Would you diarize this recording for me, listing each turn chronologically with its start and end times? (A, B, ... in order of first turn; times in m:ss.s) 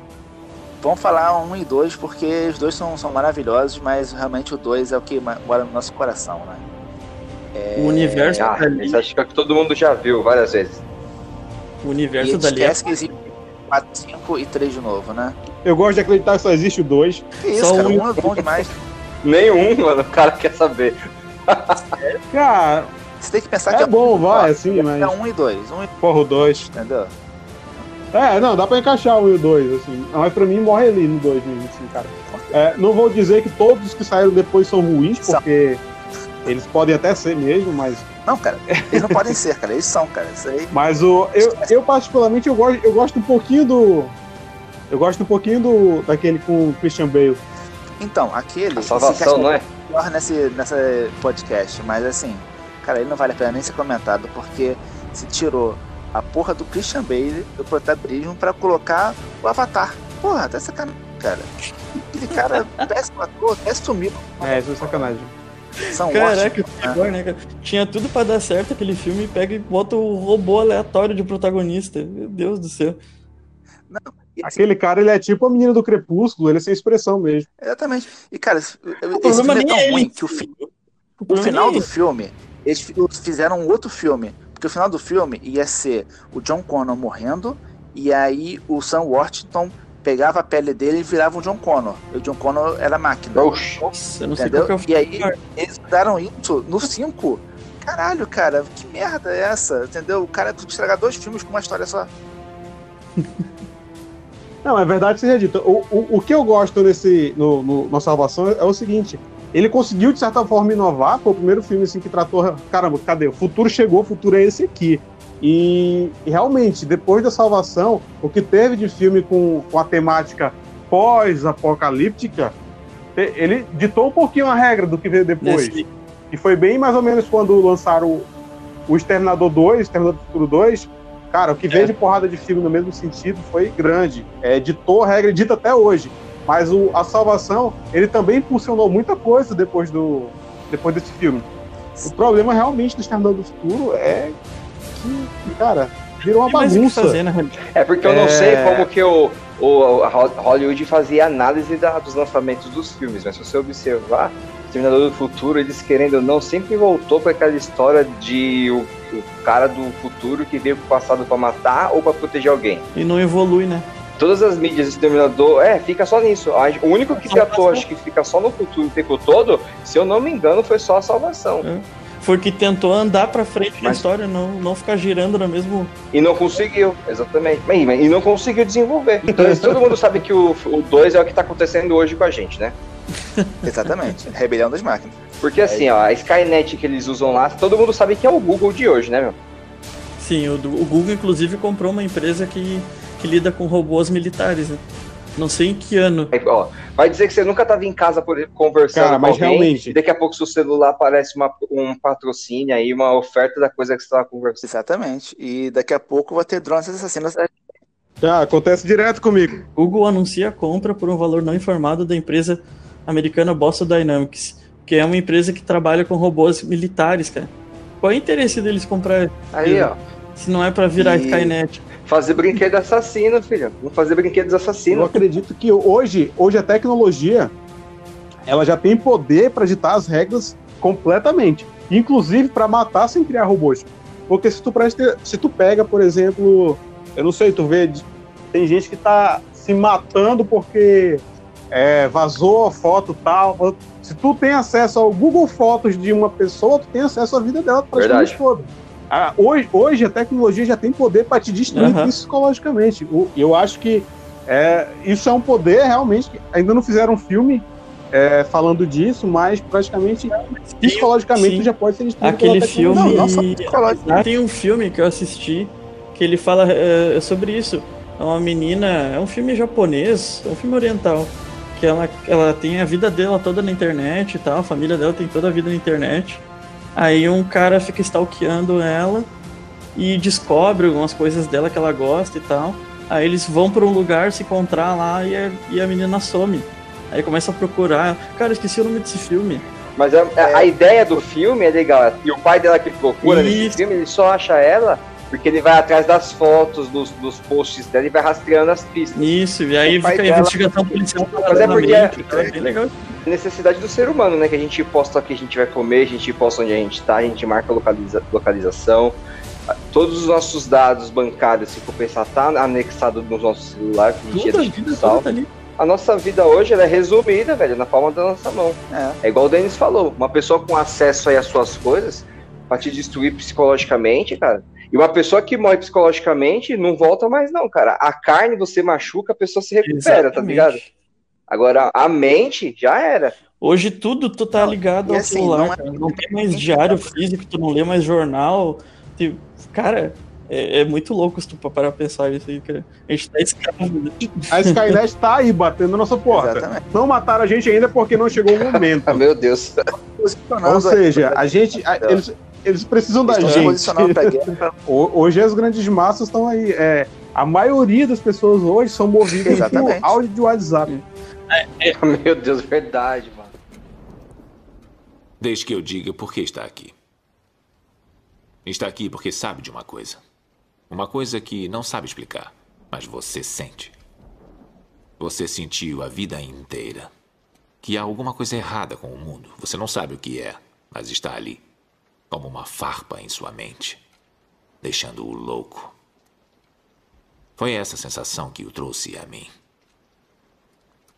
0:00.8-0:06.6 A
0:07.5-0:08.5 A
0:07.8-0:09.0 B
0:08.4-0:10.8 C
0:11.8-0:12.8 B
0:12.2-0:15.4 A
0:15.6-0:17.2 D
0:17.4-0:18.7 A
0:17.6-0:18.1 B
0:19.2-0:21.9 C
0:22.3-0:22.9 D
0:23.2-0:25.9 A
0:23.7-0:25.1 D
0:26.0-0:26.7 D
0:26.7-0:27.1 A
0:28.1-0:35.8 D
0:32.3-0:32.5 A
0:36.5-0:38.1 D
0:38.3-0:40.7 A
0:38.8-0:39.2 D
0:40.7-0:44.2 D
0:41.4-0:41.7 A
0:44.9-0:47.4 D
0:48.0-1:01.5 A
0:48.8-0:49.6 C
1:02.1-1:05.1 A
1:02.4-1:02.6 B
1:04.4-1:05.3 D
1:05.8-1:13.0 B
1:05.9-1:07.0 A
1:13.9-1:14.6 A
1:14.4-1:17.5 D
1:17.6-1:20.5 A
1:19.1-1:21.9 B
1:21.3-1:33.5 A
1:33.4-1:33.8 C
1:33.8-1:35.4 B
1:34.4-1:42.1 A
1:43.2-1:43.5 B
1:44.6-2:02.5 D
2:03.2-2:05.8 D
2:05.4-2:05.9 B
2:06.3-2:08.3 D
2:08.9-2:21.5 D
2:22.0-2:24.4 D
2:24.9-2:27.2 D
2:26.4-2:27.6 B
2:27.8-2:42.9 C
2:28.0-2:28.9 D
2:42.9-2:43.9 B
2:44.2-2:51.7 C
2:47.1-2:47.8 B
2:51.6-2:55.9 B
2:56.1-3:02.8 C
2:59.4-2:59.8 D
3:03.6-3:05.9 A
3:05.4-3:09.4 C
3:10.2-3:14.8 B
3:15.4-3:16.3 B
3:16.3-3:24.6 C
3:18.9-3:20.0 D
3:24.6-3:27.6 A
3:28.2-3:29.6 D
3:29.8-3:37.5 B
3:38.0-3:41.8 B
3:39.5-3:40.0 C
3:41.0-3:41.5 A
3:42.1-3:45.2 C
3:44.9-3:47.5 D
3:48.4-4:23.3 D
4:08.0-4:08.4 C
4:11.7-4:12.1 B
4:20.7-4:21.7 B
4:22.2-4:36.4 B
4:22.9-4:24.2 A
4:37.0-4:39.3 B
4:40.0-4:49.6 B
4:50.0-4:59.2 C
4:50.4-4:50.7 A
4:53.2-4:53.8 B
4:59.2-5:03.1 B
4:59.8-5:02.6 A
5:01.5-5:02.2 C
5:03.3-5:09.2 C
5:09.9-5:15.3 C
5:14.3-5:15.5 B
5:15.8-5:30.8 C
5:18.9-5:19.2 A
5:29.8-5:30.9 B
5:31.5-5:33.4 C
5:33.6-5:45.0 B
5:34.6-5:37.1 A
5:44.5-5:49.2 D
5:46.3-5:46.8 A
5:48.6-5:49.9 C
5:50.1-5:52.2 A
5:50.6-6:00.9 D
5:53.2-5:54.8 A
5:53.4-5:53.7 B
5:59.4-6:00.2 A
6:00.9-6:02.0 B
6:02.0-6:03.5 C
6:05.4-6:07.0 E
6:08.6-6:10.2 E
6:10.9-6:14.0 E
6:15.2-6:17.1 E
6:17.8-6:21.6 E
6:22.3-6:24.0 E
6:24.8-6:25.9 E
6:27.6-6:29.5 E